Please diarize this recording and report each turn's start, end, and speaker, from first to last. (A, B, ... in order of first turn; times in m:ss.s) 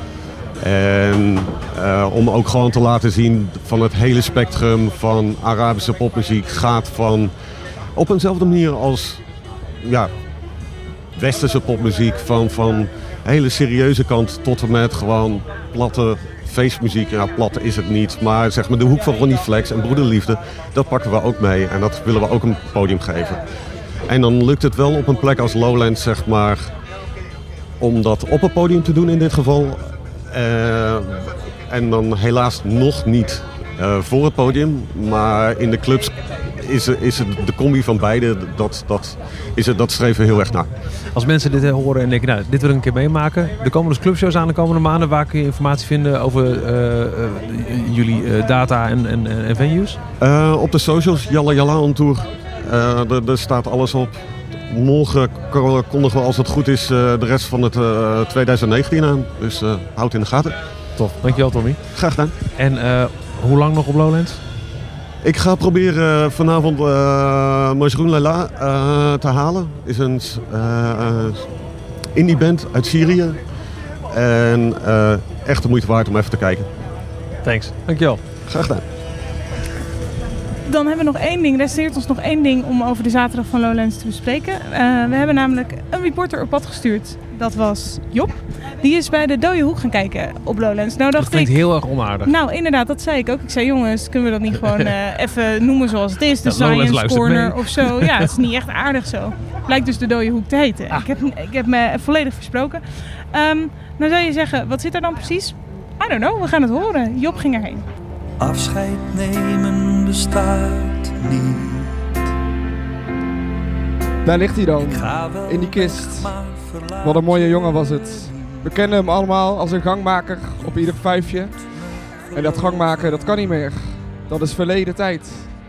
0:00.6-0:07.3 A
0:08.0-0:09.2 A
0:09.8-0:10.1 A
0:11.1-0:23.4 A
0:24.1-0:26.7 A
0:27.8-0:40.7 A
0:41.1-0:50.0 B
0:50.2-1:00.6 A
1:01.0-1:01.8 B
1:01.9-1:02.3 A
1:02.6-1:04.4 B
1:05.2-1:11.5 A
1:12.1-1:13.4 A
1:14.1-1:16.7 A
1:17.4-1:18.2 B
1:18.4-1:18.8 A
1:20.6-1:31.7 C
1:31.2-1:32.3 B
1:32.2-1:47.8 C
1:36.4-1:38.3 B
1:48.4-1:51.9 D
1:54.2-1:56.4 E
1:54.8-1:58.6 D
1:57.0-2:01.7 E
2:02.3-2:05.5 E